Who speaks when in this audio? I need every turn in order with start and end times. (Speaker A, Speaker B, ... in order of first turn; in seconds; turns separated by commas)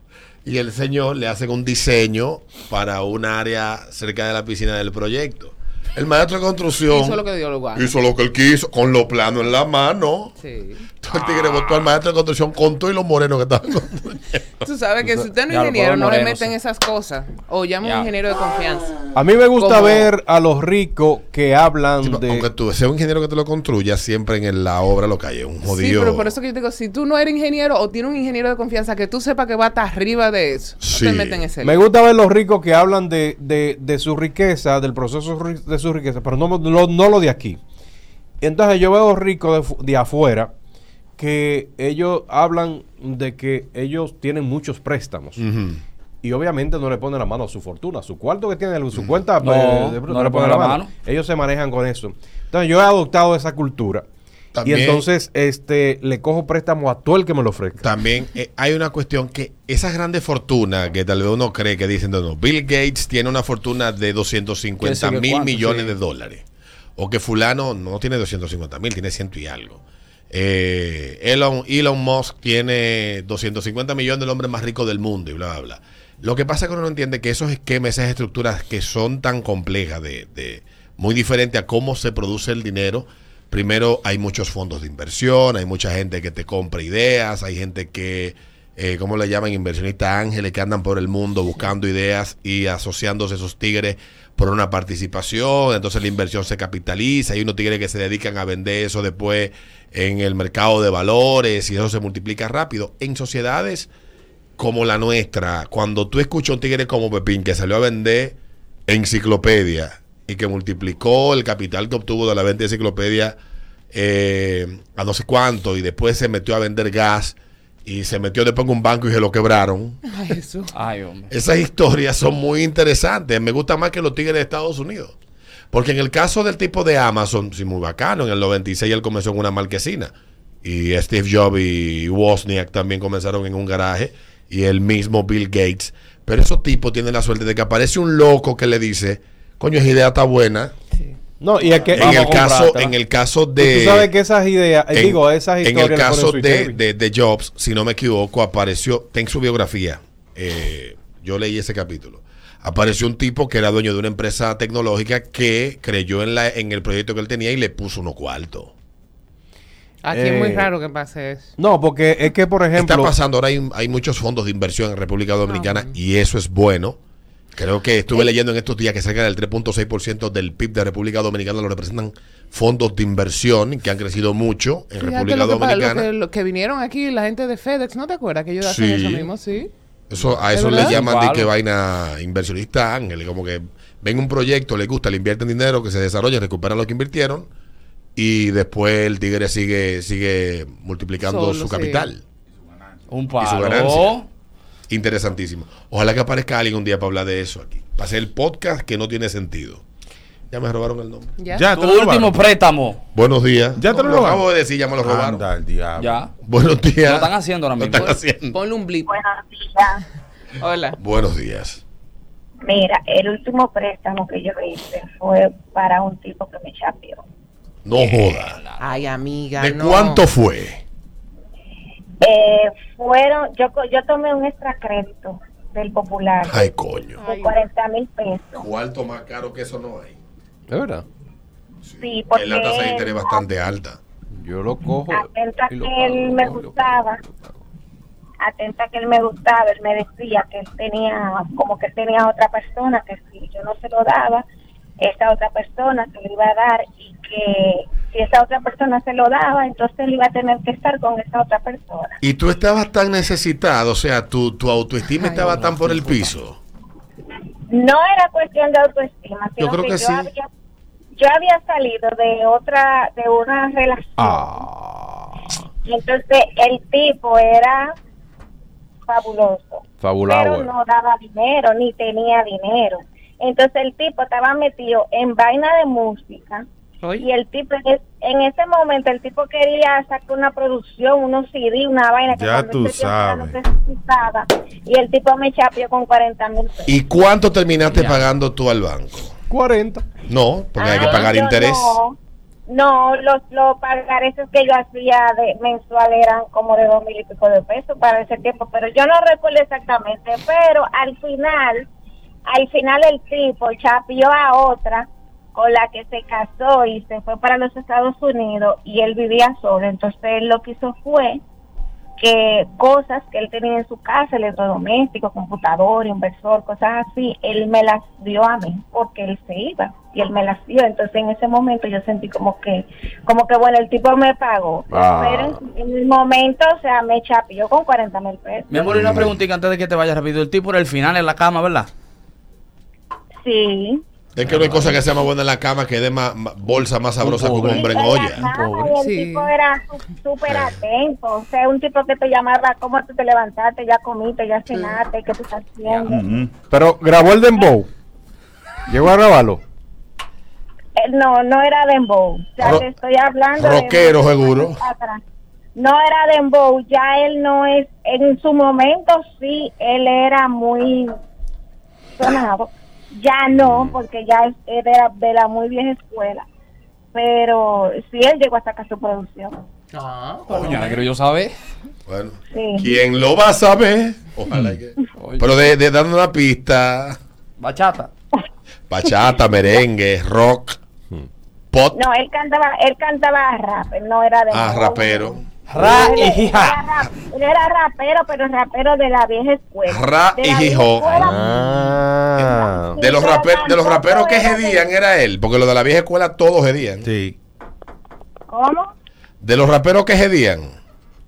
Speaker A: 0.5-7.2, Speaker B: 6.9-7.9, Speaker A: 7.7-10.3, Speaker B: 10.4-10.9, Speaker A: 11.0-14.5, Speaker B: 14.6-19.0, Speaker C: 15.5-16.5, Speaker C: 17.8-18.1, Speaker D: 19.1-22.5, Speaker B: 19.6-20.1, Speaker A: 22.0-26.3, Speaker B: 25.6-31.8, Speaker A: 30.8-31.5, Speaker D: 31.6-37.6, Speaker D: 38.4-40.5, Speaker D: 41.2-45.4, Speaker A: 45.4-45.8, Speaker D: 46.2-54.0, Speaker A: 48.9-49.2, Speaker C: 49.4-50.9, Speaker A: 54.5-55.1, Speaker D: 54.6-57.8, Speaker A: 57.8-66.5, Speaker C: 64.8-66.0, Speaker A: 67.0-103.9, Speaker A: 104.6-108.4, Speaker A: 108.9-113.4, Speaker A: 113.9-120.0, Speaker B: 120.1-120.7, Speaker C: 120.7-121.3, Speaker A: 121.3-125.1, Speaker A: 125.7-140.7, Speaker D: 141.4-142.2, Speaker A: 141.9-144.1, Speaker C: 141.9-142.9, Speaker D: 143.6-146.8, Speaker A: 144.9-158.7, Speaker B: 160.0-161.5, Speaker D: 160.1-160.7, Speaker D: 161.6-163.1, Speaker A: 162.8-167.0, Speaker B: 165.5-166.0, Speaker A: 167.6-176.1, Speaker B: 175.0-179.7, Speaker A: 178.6-179.3, Speaker A: 180.1-187.5, Speaker B: 180.5-181.0, Speaker C: 180.7-181.5, Speaker A: 188.2-192.2, Speaker B: 191.2-192.1, Speaker E: 192.7-193.3, Speaker C: 193.1-194.3, Speaker A: 193.4-194.2, Speaker A: 194.9-199.8, Speaker A: 200.5-201.3, Speaker B: 201.4-201.7, Speaker E: 201.5-202.4, Speaker C: 201.7-203.0, Speaker A: 203.1-205.4, Speaker E: 203.8-204.4, Speaker E: 205.0-206.3, Speaker C: 206.0-206.3, Speaker A: 206.4-208.6, Speaker C: 207.0-208.2, Speaker B: 208.5-209.2, Speaker F: 209.1-210.0, Speaker B: 210.6-211.0, Speaker A: 211.0-211.8, Speaker F: 212.6-217.2, Speaker A: 217.8-218.6, Speaker C: 217.9-219.1, Speaker B: 218.8-220.2, Speaker A: 219.6-220.8, Speaker F: 222.2-228.6, Speaker A: 226.5-227.2, Speaker B: 227.2-227.6, Speaker A: 228.6-230.2, Speaker D: 230.7-231.1, Speaker A: 231.9-234.0, Speaker F: 232.0-233.5, Speaker D: 234.3-237.6, Speaker F: 235.1-237.2, Speaker F: 238.4-244.4, Speaker F: 245.0-252.2, Speaker A: 252.2-256.6, Speaker C: 255.2-256.3, Speaker F: 257.7-260.5, Speaker A: 259.6-260.3, Speaker F: 261.2-264.6, Speaker D: 264.2-265.4, Speaker F: 265.9-267.9, Speaker F: 269.1-276.6, Speaker D: 270.0-270.7, Speaker B: 277.0-277.3, Speaker F: 277.2-286.9, Speaker E: 282.3-283.6, Speaker A: 286.9-289.3, Speaker C: 287.9-288.3, Speaker D: 289.5-290.1, Speaker A: 290.3-292.0, Speaker F: 290.8-292.2, Speaker B: 290.9-291.3, Speaker F: 292.7-301.9, Speaker F: 302.5-311.4, Speaker F: 312.2-329.0, Speaker D: 324.9-325.6, Speaker C: 328.7-331.9, Speaker A: 328.8-329.4, Speaker F: 333.4-334.0, Speaker A: 334.4-338.5, Speaker C: 336.7-338.9, Speaker F: 337.7-346.2, Speaker B: 339.0-339.5, Speaker A: 340.5-340.8, Speaker A: 344.7-345.0, Speaker C: 345.9-346.2, Speaker E: 346.1-346.5, Speaker D: 346.6-347.9, Speaker D: 348.9-349.6, Speaker F: 351.0-355.2, Speaker A: 352.6-352.9, Speaker A: 353.6-354.8, Speaker F: 355.8-361.1, Speaker F: 362.2-366.4, Speaker F: 367.1-369.6, Speaker B: 369.9-371.0, Speaker C: 370.5-371.5, Speaker A: 372.1-377.2, Speaker F: 372.5-372.9, Speaker C: 375.2-375.5, Speaker C: 377.6-378.1, Speaker A: 378.9-380.8, Speaker A: 381.7-382.0, Speaker F: 381.9-391.6, Speaker A: 384.5-386.1, Speaker C: 385.7-386.8, Speaker A: 389.9-391.3, Speaker D: 391.2-393.0, Speaker F: 392.4-394.9, Speaker A: 392.4-397.1, Speaker E: 397.0-397.4, Speaker F: 398.5-398.9, Speaker A: 399.4-400.7